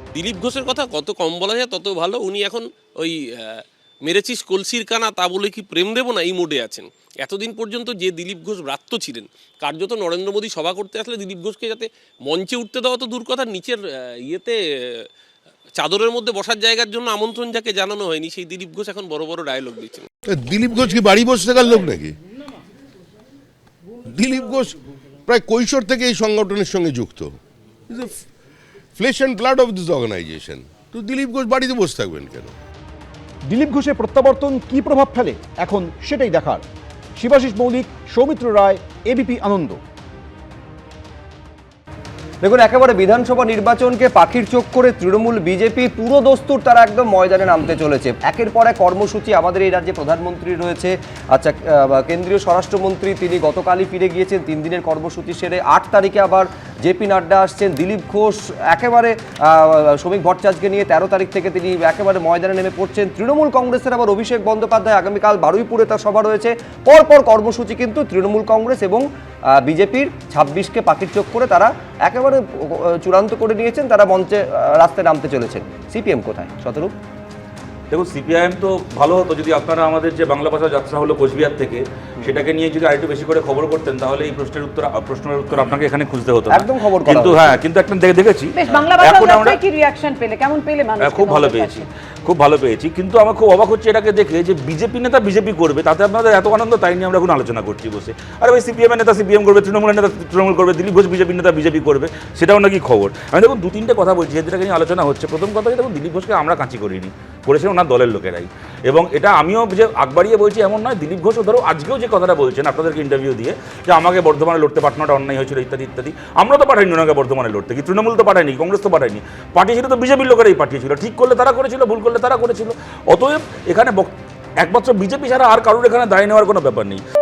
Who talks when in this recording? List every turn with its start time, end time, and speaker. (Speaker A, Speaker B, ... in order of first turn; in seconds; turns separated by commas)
Speaker A: 0.1-15.0, Speaker A: 15.8-20.1, Speaker B: 20.3-22.1, Speaker B: 24.1-24.7, Speaker B: 25.3-27.4, Speaker B: 29.0-32.5, Speaker C: 33.5-36.6, Speaker C: 37.2-39.8, Speaker D: 42.4-69.0, Speaker D: 69.6-77.0, Speaker E: 77.9-89.6, Speaker D: 86.5-87.6, Speaker F: 88.6-91.9, Speaker E: 91.0-127.0